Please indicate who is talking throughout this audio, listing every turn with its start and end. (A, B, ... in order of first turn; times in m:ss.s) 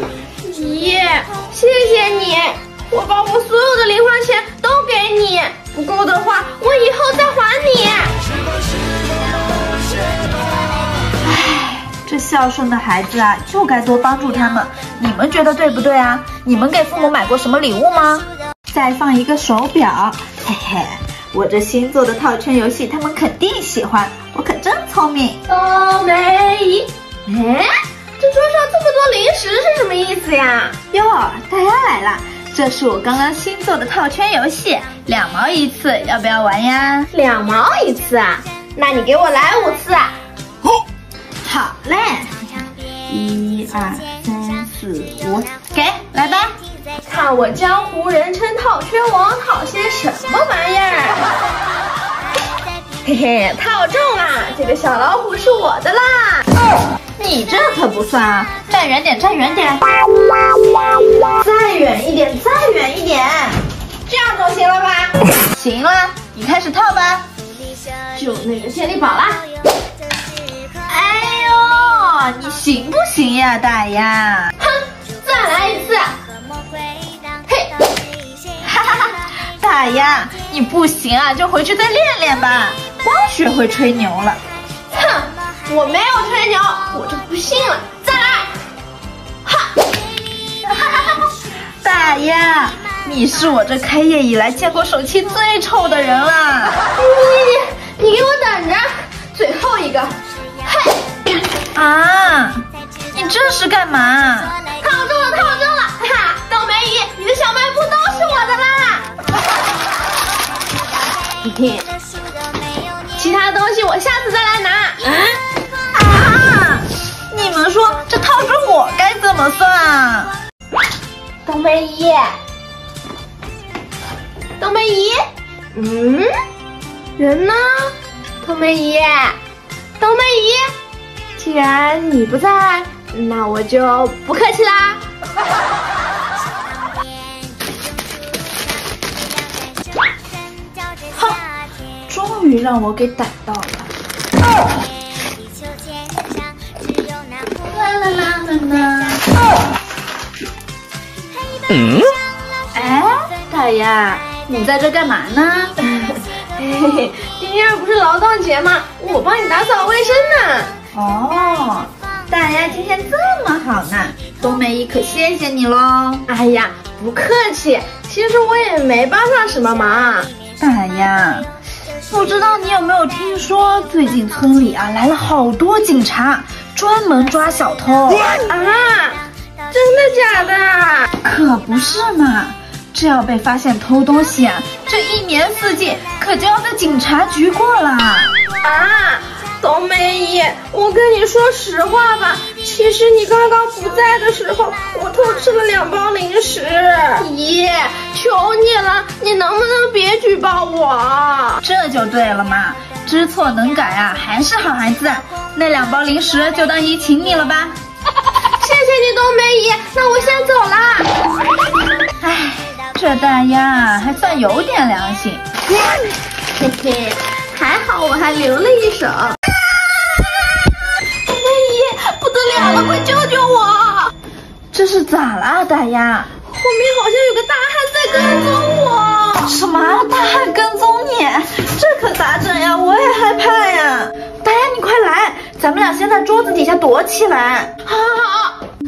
0:00.4-0:08.1 A
0:11.2-0:25.4 B
0:25.5-0:30.8 A
0:30.9-0:37.1 B
0:37.1-0:40.2 A
0:41.4-0:46.6 B
0:47.1-0:51.2 A
0:53.0-0:56.5 A
0:57.2-0:59.8 B
1:01.4-1:03.6 B
1:04.1-1:05.1 A
1:05.5-1:07.3 B
1:08.1-1:09.4 A
1:10.9-1:14.5 B
1:14.6-1:16.2 A
1:17.5-1:17.7 A
1:18.6-1:24.4 B
1:24.9-1:28.5 A
1:31.8-1:36.8 B
1:36.9-1:41.1 A
1:41.7-1:44.6 B
1:44.8-1:49.1 A
1:51.4-1:51.8 A
1:53.2-1:55.4 A
1:55.9-2:00.3 B
2:01.4-2:02.3 A
2:04.6-2:06.3 A
2:07.2-2:09.4 A
2:10.0-2:10.7 A
2:11.4-2:15.0 A
2:21.1-2:21.4 B
2:22.1-2:23.9 B
2:27.6-2:29.3 B
2:32.7-2:35.8 B
2:35.8-2:40.7 A
2:40.9-2:46.3 B
2:46.3-2:50.3 A
2:50.6-2:51.5 B
2:52.1-2:58.4 B
2:58.5-3:01.1 A
3:01.2-3:08.3 B
3:08.6-3:21.6 A
3:21.6-3:27.8 B
3:28.6-3:31.1 A
3:32.2-3:35.4 B
3:36.6-3:39.4 A
3:41.2-3:44.1 A
3:44.7-3:46.3 B
3:46.5-3:49.6 A
3:49.4-3:57.8 B
3:57.8-3:58.6 A